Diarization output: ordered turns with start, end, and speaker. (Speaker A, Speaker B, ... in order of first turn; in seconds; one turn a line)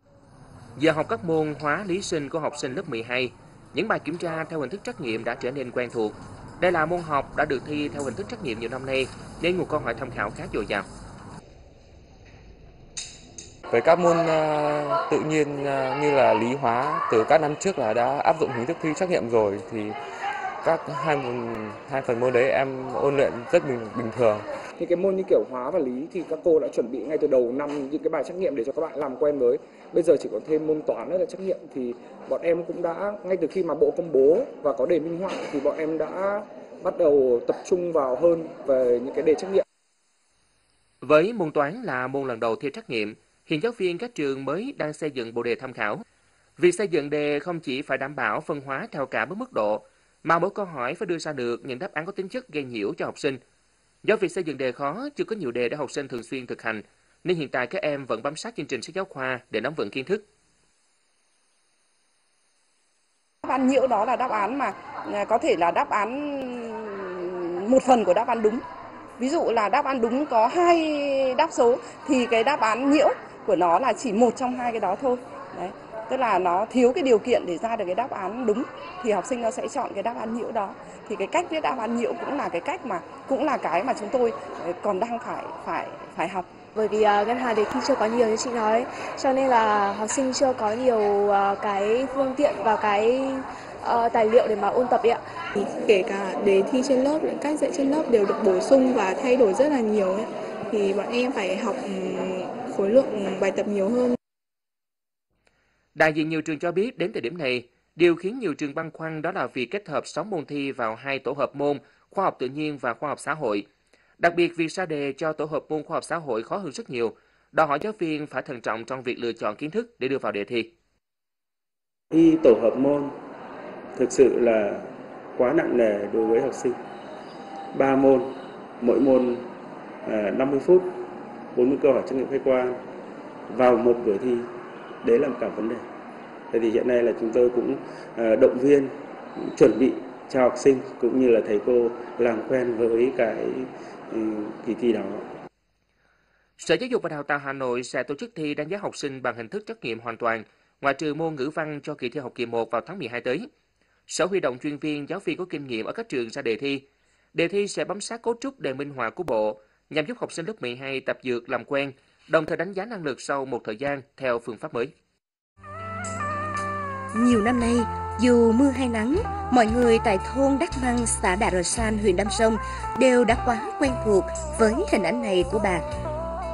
Speaker A: 0.8-10.8
Speaker B: 13.7-19.9
Speaker B: 20.6-24.4
Speaker C: 24.8-39.6
Speaker A: 41.0-46.0
Speaker A: 46.6-53.4
Speaker A: 54.0-60.2
Speaker D: 63.4-68.6
Speaker D: 69.2-86.5
Speaker E: 86.7-95.2
Speaker F: 95.5-104.2
Speaker A: 105.9-113.6
Speaker A: 114.2-120.7
Speaker G: 122.1-123.1
Speaker G: 124.0-126.8
Speaker G: 127.7-129.4
Speaker G: 130.0-131.0
Speaker G: 131.5-132.8
Speaker G: 133.5-134.4
Speaker G: 135.0-135.8
Speaker G: 136.5-145.2
Speaker A: 146.6-153.5
Speaker A: 154.1-164.9
Speaker H: 167.1-175.8